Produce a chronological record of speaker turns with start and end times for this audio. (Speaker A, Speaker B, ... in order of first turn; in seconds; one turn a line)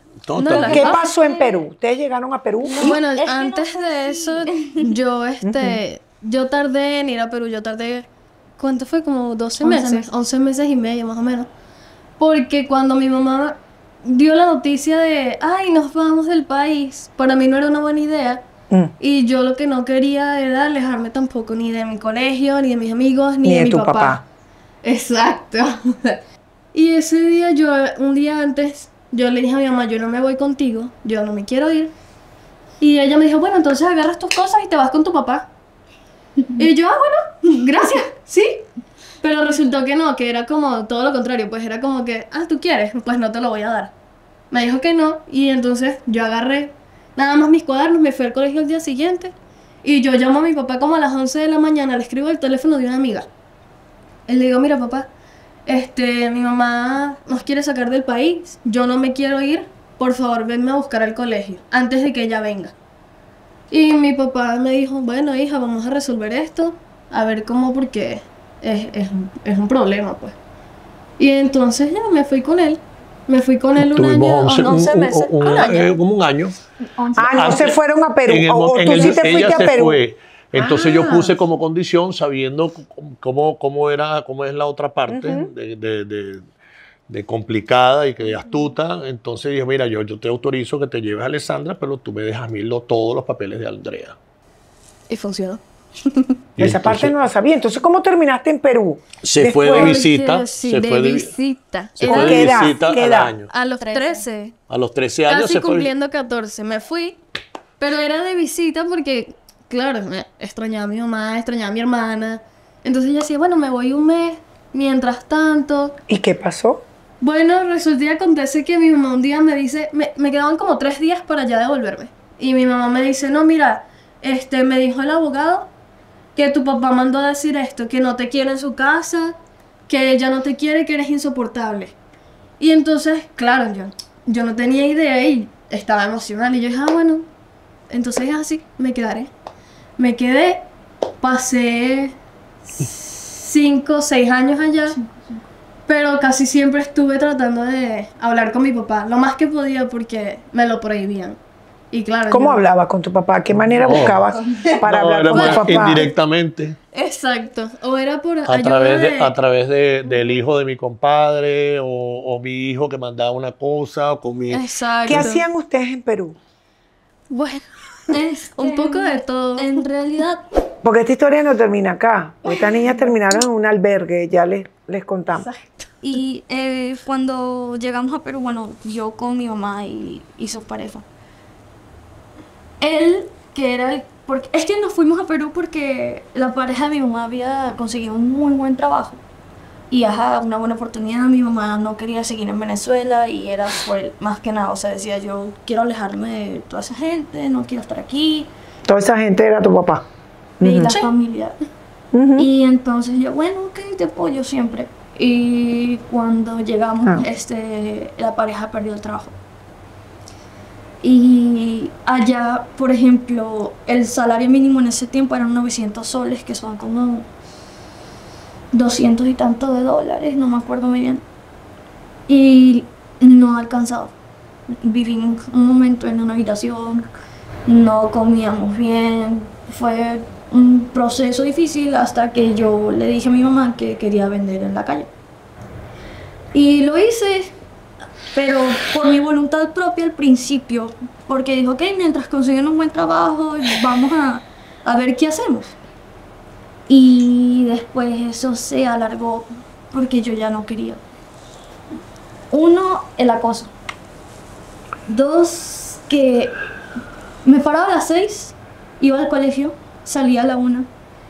Speaker A: 0.2-1.0
Speaker B: 0.4-1.0
Speaker C: 0.4-1.5
Speaker D: 0.7-3.0
Speaker C: 2.6-4.8
Speaker B: 2.8-8.1
Speaker D: 5.4-5.8
Speaker B: 8.6-11.5
Speaker C: 9.6-10.1
Speaker B: 12.2-18.4
Speaker B: 19.0-24.2
Speaker D: 23.4-24.2
Speaker B: 24.8-26.2
Speaker B: 26.7-31.9
Speaker B: 32.8-35.5
Speaker B: 36.6-38.7
Speaker B: 39.2-43.9
Speaker B: 44.5-49.3
Speaker B: 49.8-53.3
Speaker B: 54.3-55.1
Speaker B: 55.7-62.7
Speaker B: 63.7-70.4
Speaker B: 71.2-76.0
Speaker A: 73.8-76.6
Speaker D: 77.2-80.0
Speaker A: 77.2-86.4
Speaker D: 80.5-81.3
Speaker D: 85.1-85.5
Speaker A: 87.1-94.2
Speaker B: 95.1-95.6
Speaker A: 96.6-97.2
Speaker D: 96.6-100.0
Speaker A: 99.2-101.3
Speaker B: 99.6-102.8
Speaker A: 102.0-103.5
Speaker D: 102.0-103.4
Speaker B: 103.5-104.5
Speaker C: 103.8-104.3
Speaker A: 104.7-105.9
Speaker B: 105.3-107.2
Speaker B: 107.8-116.0
Speaker D: 116.1-116.8
Speaker B: 117.2-125.7
Speaker B: 126.3-129.4
Speaker B: 129.9-131.9
Speaker B: 132.6-137.3
Speaker B: 137.9-139.3
Speaker B: 140.0-140.6
Speaker B: 141.2-142.2
Speaker B: 142.8-145.0
Speaker C: 144.9-145.4
Speaker B: 145.9-151.4
Speaker B: 151.9-152.6
Speaker D: 152.3-156.1
Speaker A: 153.8-154.2
Speaker B: 154.6-156.1
Speaker A: 154.8-156.8
Speaker B: 156.9-159.3
Speaker A: 158.5-164.7
Speaker B: 164.5-165.5
Speaker D: 165.1-166.4
Speaker C: 167.3-170.5
Speaker B: 168.2-169.9
Speaker D: 170.8-175.5
Speaker B: 175.4-175.9
Speaker C: 176.0-181.1
Speaker C: 182.8-189.2
Speaker C: 189.9-198.5
Speaker D: 198.9-200.1
Speaker D: 200.6-200.9
Speaker C: 200.6-201.6
Speaker D: 202.1-202.5
Speaker C: 202.4-209.3
Speaker C: 211.0-217.3
Speaker C: 218.7-221.2
Speaker C: 222.3-224.1
Speaker C: 224.7-227.1
Speaker C: 227.7-235.1
Speaker C: 236.5-237.6
Speaker C: 238.3-245.8
Speaker C: 246.9-251.0
Speaker C: 252.5-253.7
Speaker C: 255.1-256.6
Speaker C: 257.4-260.9